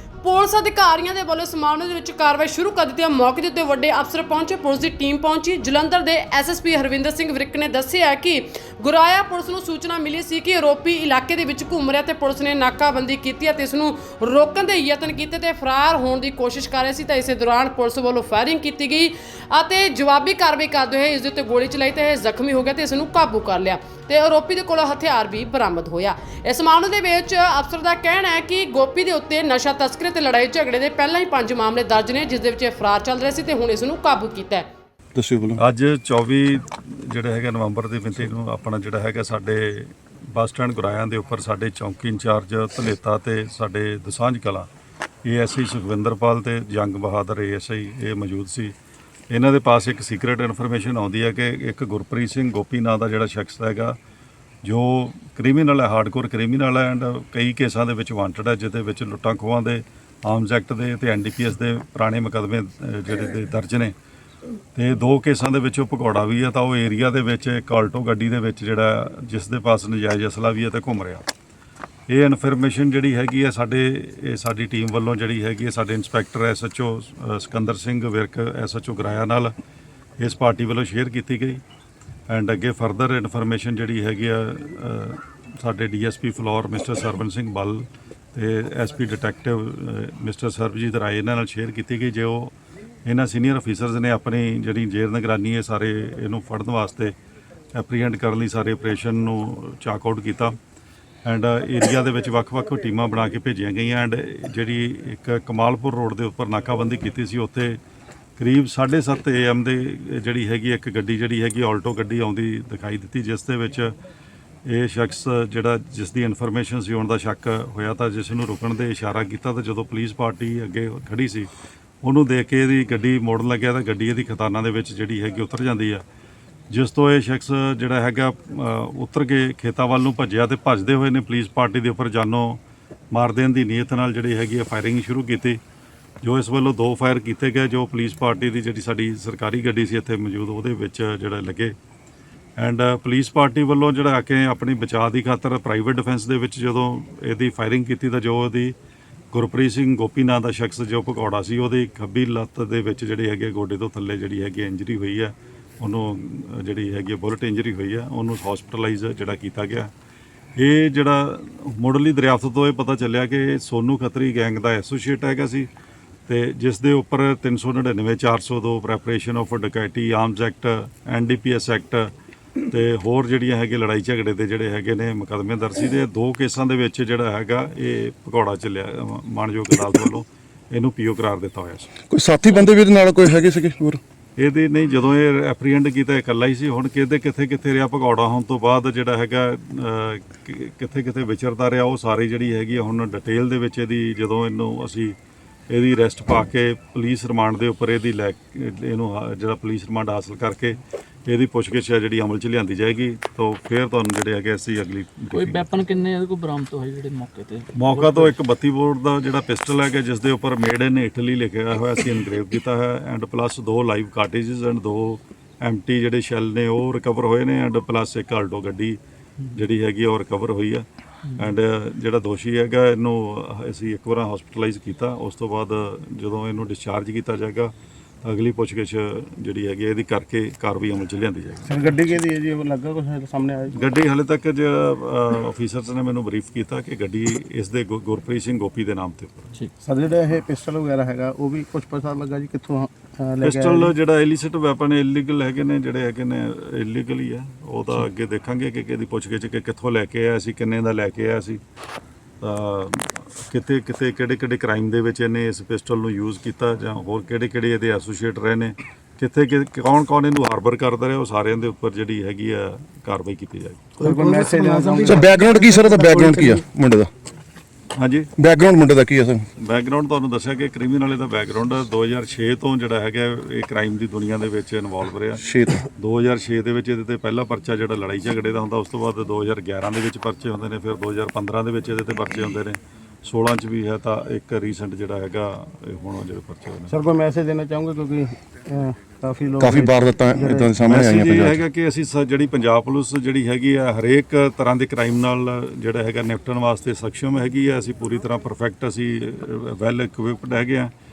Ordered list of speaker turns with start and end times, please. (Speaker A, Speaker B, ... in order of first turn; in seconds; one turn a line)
Speaker A: 0.2-34.7
Speaker B: 35.1-35.6
Speaker C: 35.6-44.7
Speaker C: 45.2-48.7
Speaker C: 49.3-54.0
Speaker C: 54.6-63.9
Speaker C: 64.7-71.2
Speaker C: 72.1-79.5
Speaker C: 80.2-81.6
Speaker C: 82.3-92.5
Speaker C: 93.0-97.1
Speaker C: 97.7-100.6
Speaker C: 101.2-107.8
Speaker C: 108.4-114.0
Speaker C: 114.6-121.5
Speaker C: 122.0-126.0
Speaker C: 126.7-132.6
Speaker C: 133.1-135.6
Speaker C: 136.2-141.7
Speaker C: 142.6-148.7
Speaker C: 149.3-159.9
Speaker C: 160.6-165.7
Speaker C: 166.3-172.1
Speaker C: 172.7-181.9
Speaker B: 182.1-184.0
Speaker C: 184.4-195.2
Speaker C: 195.7-205.7
Speaker D: 205.3-208.3
Speaker C: 207.7-219.0
Speaker C: 219.5-232.2
Speaker E: 231.7-233.8
Speaker C: 233.7-239.5
Speaker E: 239.8-243.9
Speaker C: 243.4-251.6
Speaker C: 252.4-263.9
Speaker E: 264.0-266.3
Speaker D: 264.0-266.6
Speaker B: 265.0-267.1
Speaker C: 267.9-268.3
Speaker B: 268.4-269.4
Speaker C: 269.6-275.4
Speaker B: 275.4-275.8
Speaker C: 275.9-286.9
Speaker E: 286.9-290.7
Speaker B: 289.6-291.6
Speaker C: 290.8-300.9